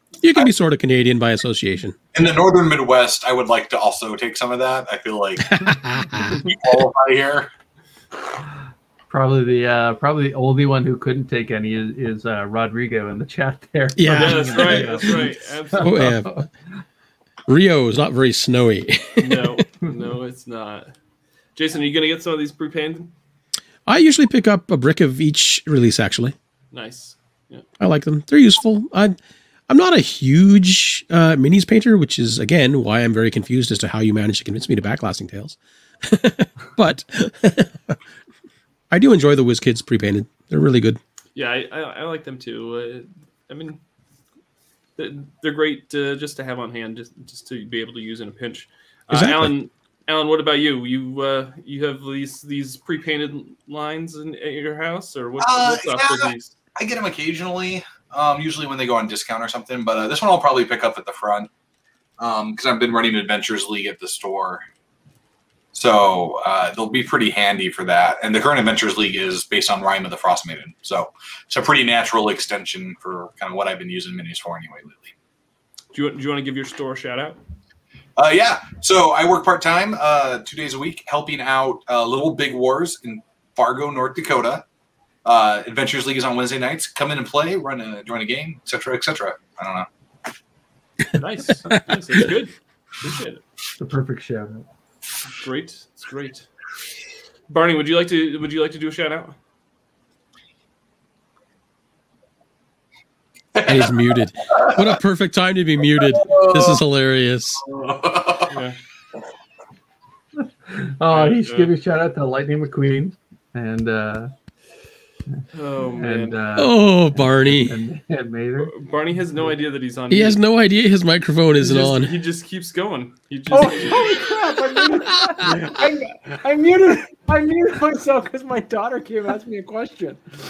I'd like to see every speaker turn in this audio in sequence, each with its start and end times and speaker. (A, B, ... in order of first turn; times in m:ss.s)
0:00.2-0:02.0 A
0:02.1-0:05.6 B
0:05.4-0:06.4 A
0:06.3-0:07.5 B
0:09.1-0:15.3 C
0:14.0-0:15.2 A
0:14.1-0:16.1 D
0:15.8-0:16.5 A
0:15.8-0:16.5 C
0:17.5-0:19.5 A
0:19.2-0:20.9 D
0:21.6-0:23.1 D
0:23.8-0:26.3 A
0:26.7-0:27.6 D
0:27.8-0:29.2 A
0:29.7-0:38.0 A
0:38.9-0:41.0 A
0:41.3-0:43.8 D
0:45.0-0:56.5 D
0:49.1-0:49.5 A
0:55.4-1:01.5 B
1:02.2-1:04.6 B
1:05.7-1:15.1 B
1:15.9-1:17.4 D
1:18.2-1:24.6 B
1:25.2-1:29.8 B
1:31.1-1:33.4 D
1:33.8-1:34.6 C
1:35.3-1:36.5 D
1:37.5-1:39.4 D
1:43.5-1:44.0 B
1:43.6-1:47.6 A
1:44.5-1:44.8 B
1:46.0-1:46.8 B
1:47.6-1:48.5 B
1:48.5-1:48.8 D
1:50.6-1:54.3 C
1:51.1-1:51.7 D
1:55.5-1:56.4 D
1:56.0-1:58.7 C
1:56.6-1:57.8 A
1:58.6-2:00.4 D
2:00.1-2:02.1 A
2:01.6-2:04.2 D
2:03.5-2:10.2 E
2:05.0-2:05.7 A